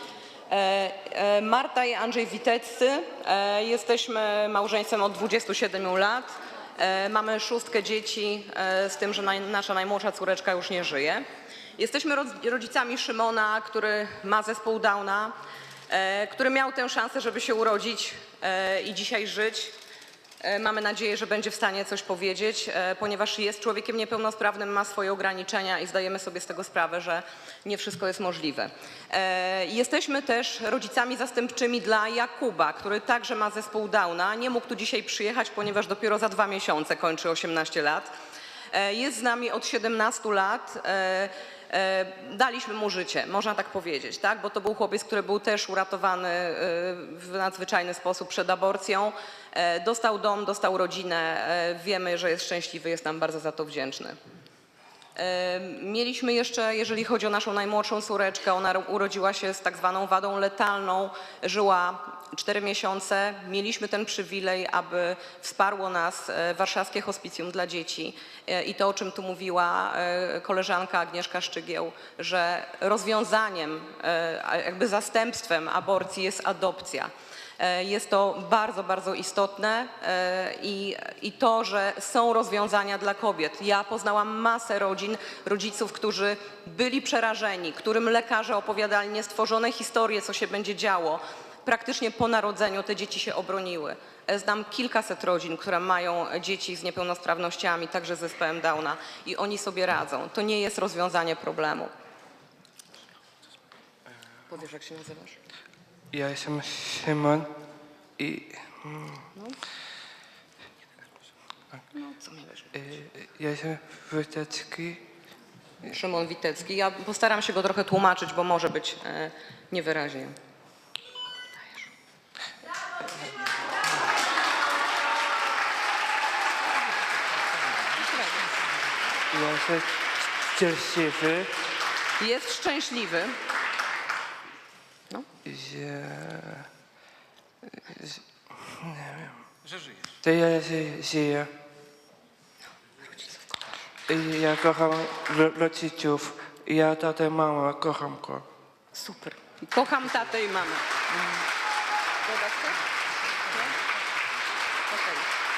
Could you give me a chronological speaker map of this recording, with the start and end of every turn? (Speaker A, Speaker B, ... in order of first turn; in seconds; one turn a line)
Speaker A: 0.5-11.2
Speaker A: 11.8-15.3
Speaker A: 15.9-19.7
Speaker A: 20.4-38.1
Speaker A: 38.7-54.2
Speaker A: 55.1-101.9
Speaker A: 104.5-105.4
Speaker B: 106.1-107.5
Speaker B: 108.2-109.3
Speaker A: 111.9-113.0
Speaker B: 112.8-115.0
Speaker A: 115.8-120.4
Speaker A: 121.6-121.9
Speaker A: 127.9-128.5
Speaker B: 129.3-129.9
Speaker B: 130.5-131.5
Speaker A: 132.2-133.3
Speaker B: 135.4-136.7
Speaker B: 137.7-139.4
Speaker B: 140.2-141.5
Speaker A: 143.0-143.6
Speaker B: 144.1-148.4
Speaker A: 148.9-151.3
Speaker A: 152.2-152.8
Speaker A: 153.5-153.7
Speaker A: 154.9-155.3